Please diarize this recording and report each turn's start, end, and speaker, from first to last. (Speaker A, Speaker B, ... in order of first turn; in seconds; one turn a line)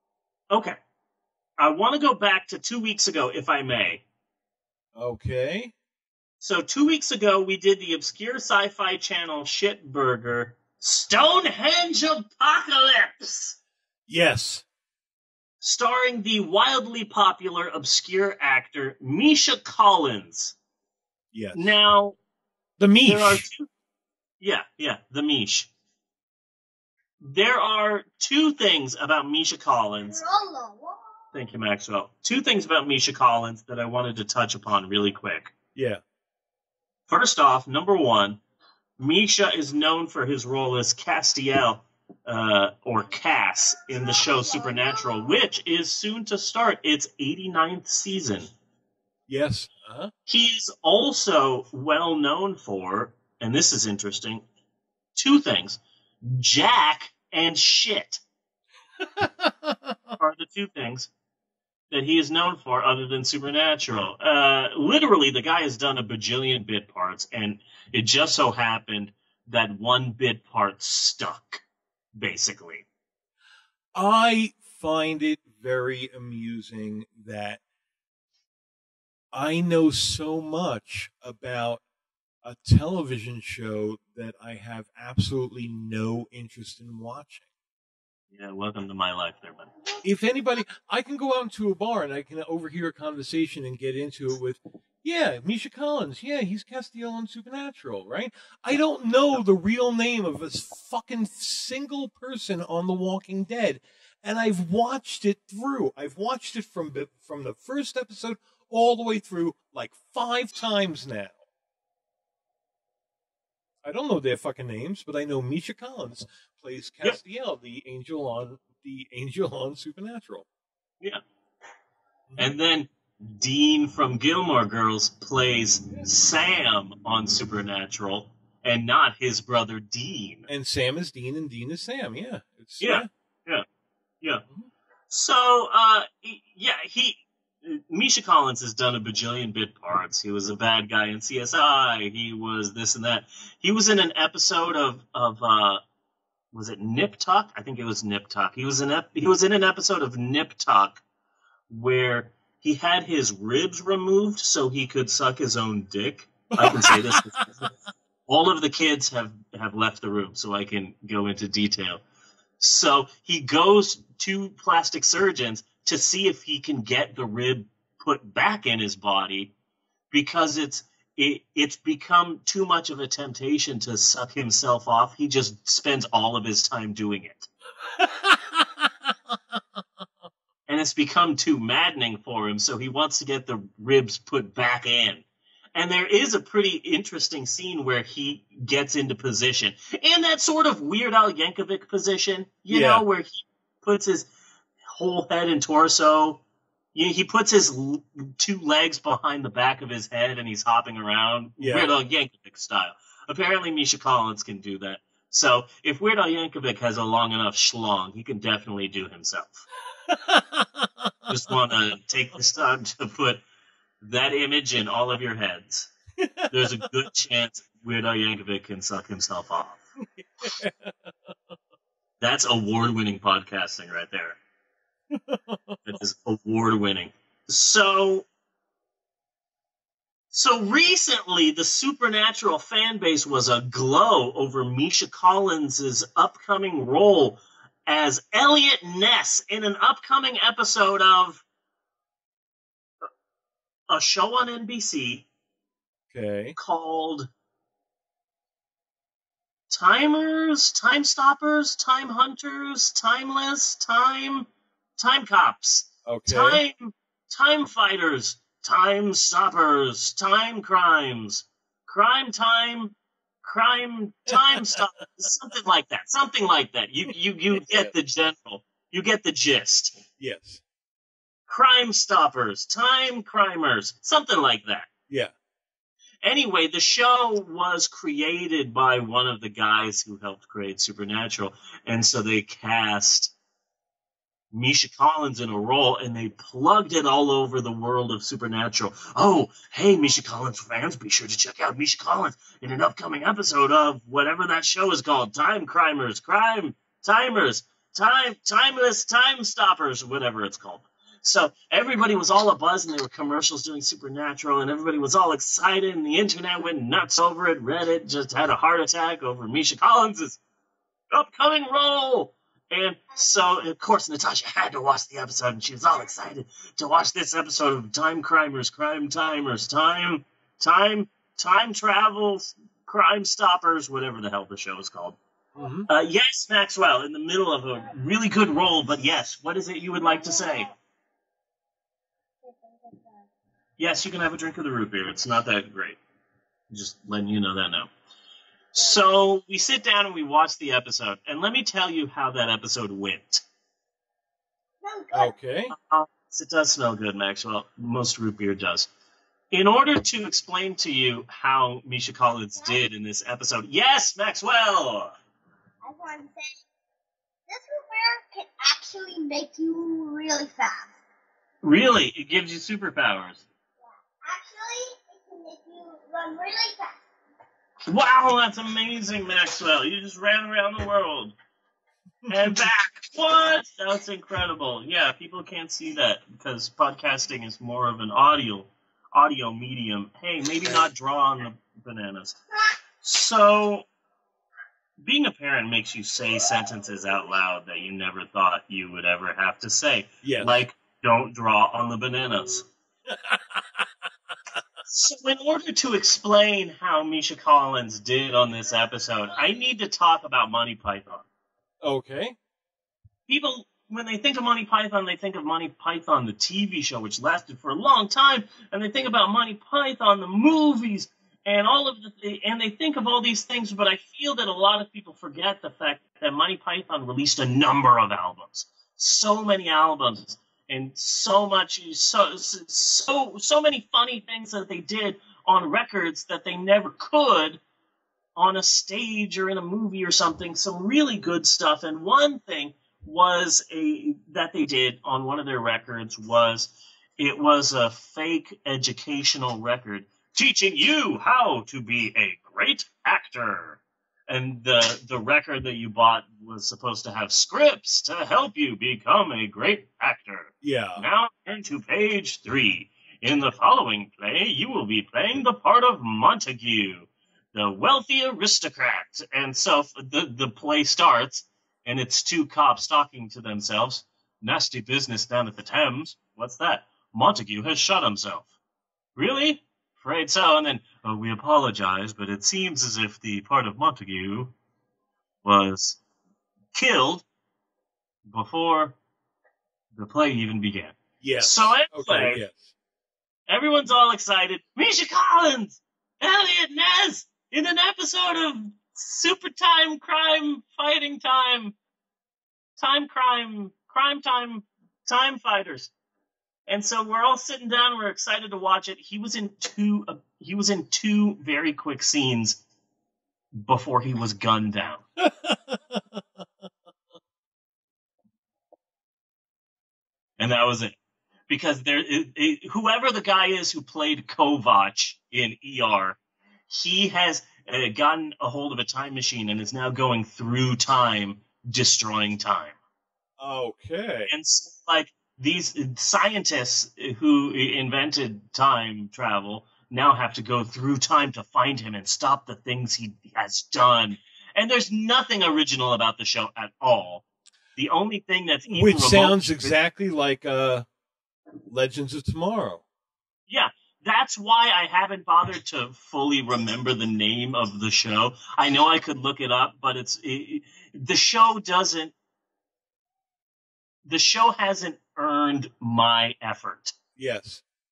Speaker A: 0.5-0.8
Speaker A: 1.6-4.0
Speaker B: 5.0-5.7
Speaker A: 6.4-13.6
Speaker B: 14.1-14.6
Speaker A: 15.6-20.6
Speaker B: 21.3-21.8
Speaker A: 21.5-22.2
Speaker B: 22.8-23.4
Speaker A: 23.0-23.7
Speaker A: 24.4-25.7
Speaker A: 27.2-30.3
Speaker C: 30.2-31.0
Speaker A: 31.3-35.5
Speaker A: 37.1-38.4
Speaker A: 39.0-48.5
Speaker B: 49.3-50.1
Speaker A: 50.3-54.4
Speaker A: 55.1-58.2
Speaker B: 59.0-60.0
Speaker A: 60.2-61.1
Speaker A: 61.9-71.6
Speaker A: 72.1-72.8
Speaker B: 73.9-77.6
Speaker B: 79.3-81.8
Speaker B: 82.4-87.4
Speaker A: 88.3-89.7
Speaker B: 90.0-111.4
Speaker B: 113.8-120.5
Speaker A: 122.4-130.5
Speaker B: 130.5-133.1
Speaker A: 132.8-133.6
Speaker A: 135.1-145.8
Speaker A: 146.5-151.0
Speaker A: 151.7-157.7
Speaker B: 156.5-157.4
Speaker A: 158.3-162.0
Speaker A: 162.6-169.5
Speaker A: 170.1-177.5
Speaker B: 178.0-178.7
Speaker A: 180.7-194.3
Speaker B: 192.7-193.0
Speaker A: 194.9-196.4
Speaker A: 196.9-209.6
Speaker B: 201.6-201.9
Speaker B: 210.1-211.5
Speaker A: 211.3-213.4
Speaker A: 214.0-215.9
Speaker B: 216.2-216.9
Speaker A: 216.5-219.8
Speaker B: 220.2-221.3
Speaker A: 222.2-224.4
Speaker B: 225.1-226.0
Speaker A: 225.8-228.3
Speaker A: 230.3-241.4
Speaker A: 243.9-245.3
Speaker B: 246.1-246.6
Speaker A: 246.6-247.3
Speaker A: 249.7-269.9
Speaker B: 256.0-256.6
Speaker B: 264.3-264.8
Speaker B: 267.5-267.9
Speaker B: 270.2-270.6
Speaker A: 271.5-274.9
Speaker A: 276.2-283.3
Speaker A: 284.5-310.4
Speaker A: 311.1-325.2
Speaker B: 325.5-325.9
Speaker A: 325.9-330.7
Speaker C: 330.0-330.6
Speaker C: 332.4-333.2
Speaker A: 333.8-336.0
Speaker A: 336.7-337.9
Speaker A: 338.7-343.4
Speaker C: 344.8-345.3
Speaker B: 345.1-345.7
Speaker A: 345.7-348.9
Speaker A: 349.5-355.1
Speaker C: 355.8-356.5
Speaker C: 357.5-360.9
Speaker A: 361.6-363.4
Speaker C: 364.2-366.9
Speaker A: 367.9-371.4
Speaker B: 372.2-372.7
Speaker A: 372.3-382.4
Speaker A: 383.0-383.9
Speaker A: 385.0-392.6
Speaker B: 390.2-390.6
Speaker B: 393.1-393.8
Speaker A: 394.9-401.3
Speaker B: 401.8-402.4
Speaker A: 403.3-427.6
Speaker A: 428.4-468.5
Speaker B: 450.6-451.0
Speaker A: 469.1-474.5
Speaker A: 475.4-476.0
Speaker A: 476.7-477.2
Speaker A: 478.3-479.0
Speaker A: 479.9-482.4
Speaker B: 481.2-482.7
Speaker A: 483.5-491.8
Speaker A: 492.8-495.9
Speaker A: 496.7-502.6
Speaker A: 503.6-505.0
Speaker B: 505.2-506.2
Speaker A: 510.4-510.9
Speaker A: 511.5-522.8
Speaker B: 523.4-524.3
Speaker A: 524.3-537.2
Speaker A: 537.8-539.7
Speaker B: 538.7-540.9
Speaker B: 541.7-542.8
Speaker A: 543.5-552.1
Speaker A: 554.0-557.0
Speaker B: 557.1-557.6